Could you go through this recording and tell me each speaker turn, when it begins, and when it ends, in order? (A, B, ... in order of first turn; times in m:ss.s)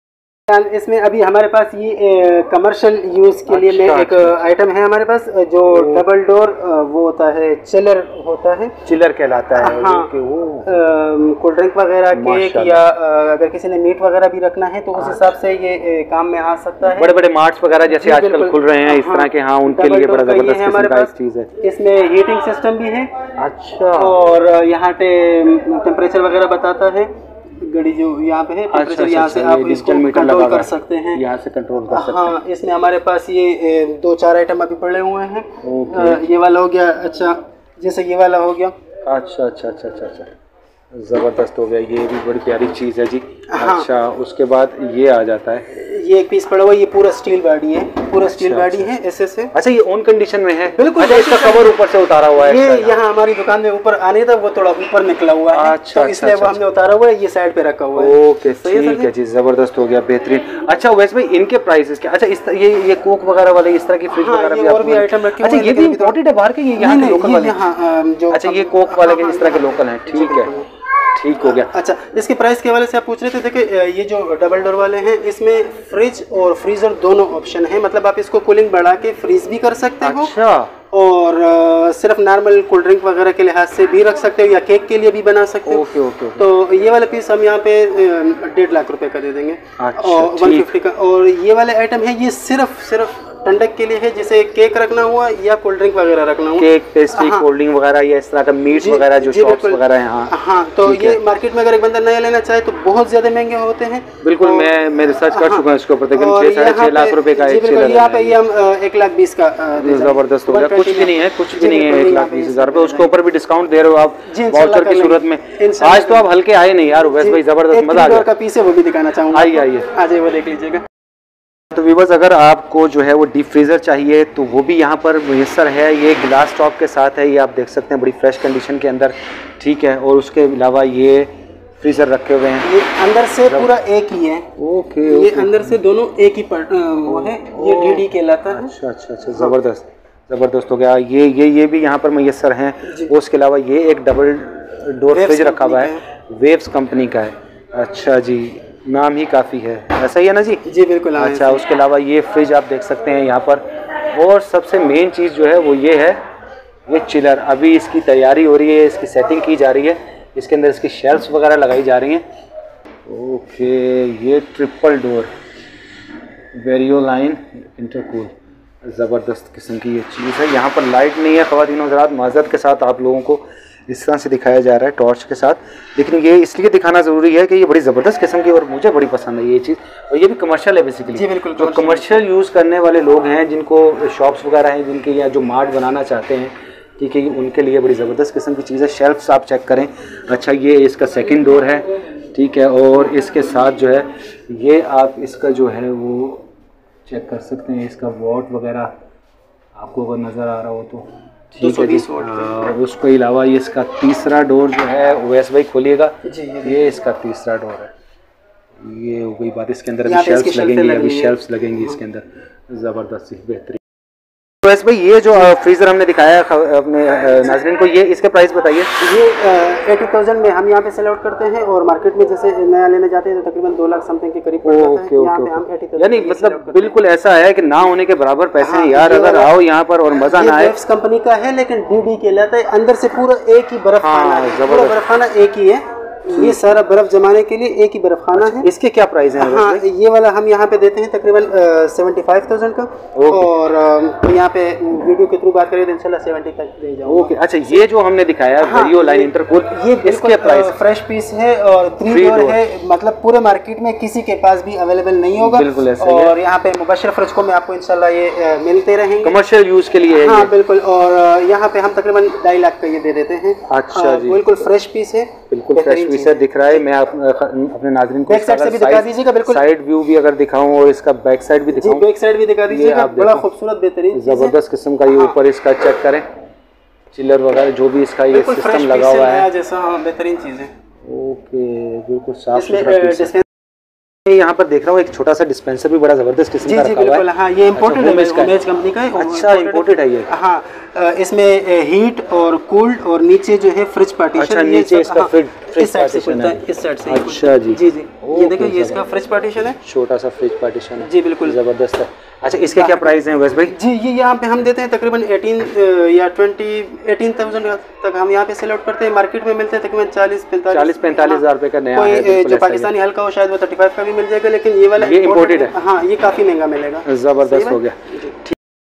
0:00.5-0:08.8 A
0:03.5-0:04.4 B
0:05.6-0:06.1 B
0:08.9-0:10.9 B
0:09.6-0:10.1 A
0:10.6-0:17.2 A
0:12.1-0:12.8 B
0:15.0-0:15.3 B
0:16.9-0:21.5 B
0:17.9-0:23.1 A
0:23.4-0:24.2 B
0:24.0-0:27.1 A
0:27.6-0:31.2 A
0:28.7-0:32.4 B
0:31.9-0:38.7 A
0:35.6-0:36.2 B
0:39.0-0:40.3 B
0:40.9-0:45.6 B
0:43.5-0:43.9 A
0:45.7-0:49.5 A
0:48.2-0:48.9 B
0:49.5-0:53.0 B
0:50.7-0:51.8 A
0:52.4-0:59.1 A
0:55.5-0:56.6 B
0:58.0-1:07.6 B
1:04.2-1:06.2 A
1:06.8-1:10.7 A
1:08.3-1:10.5 B
1:11.1-1:11.7 B
1:11.4-1:20.4 A
1:20.0-1:20.7 B
1:20.9-1:37.5 A
1:25.7-1:26.5 B
1:29.8-1:30.7 B
1:36.6-1:40.3 B
1:38.8-1:53.1 A
1:40.8-1:41.2 B
1:44.2-1:48.4 B
1:49.8-1:58.3 B
1:54.3-1:56.3 A
1:57.0-2:00.8 A
1:59.3-1:59.9 B
2:01.7-2:12.7 B
2:12.6-2:14.5 A
2:14.6-2:15.8 B
2:15.0-2:18.8 A
2:17.1-2:30.6 B
2:22.9-2:23.1 A
2:25.1-2:26.0 A
2:30.6-2:31.6 A
2:31.2-2:36.2 B
2:36.9-2:42.3 B
2:43.1-2:45.3 B
2:46.5-3:16.5 B
3:01.1-3:02.2 A
3:17.1-3:18.9 B
3:19.8-3:27.9 B
3:21.6-3:22.5 A
3:26.2-3:26.8 A
3:28.8-3:33.8 B
3:30.0-3:31.4 A
3:34.6-3:38.9 B
3:39.0-3:47.0 A
3:44.6-3:50.8 B
3:48.6-3:49.5 A
3:50.1-3:58.7 A
3:54.0-3:55.0 B
3:56.3-3:56.8 B
3:58.4-3:59.8 B
3:59.4-4:07.8 A
4:03.1-4:03.5 B
4:07.1-4:10.8 B
4:08.6-4:19.4 A
4:12.1-4:12.6 B
4:15.4-4:16.4 B
4:19.2-4:20.5 B
4:20.2-4:26.8 A
4:23.7-4:24.4 B
4:25.5-4:32.1 B
4:28.3-4:29.6 A
4:31.7-4:34.6 A
4:32.7-4:33.5 B
4:34.1-4:36.3 B
4:35.1-4:35.4 A
4:37.1-4:39.5 B
4:38.3-4:40.7 A
4:41.0-4:43.3 B
4:42.5-4:43.5 A
4:44.2-4:48.6 B
4:46.6-4:59.8 A
4:49.1-4:50.3 B
4:54.4-4:59.0 B
4:59.7-5:03.8 B
5:01.0-5:01.6 A
5:02.7-5:18.4 A
5:10.7-5:12.9 B
5:15.0-5:15.8 B
5:17.1-5:18.6 B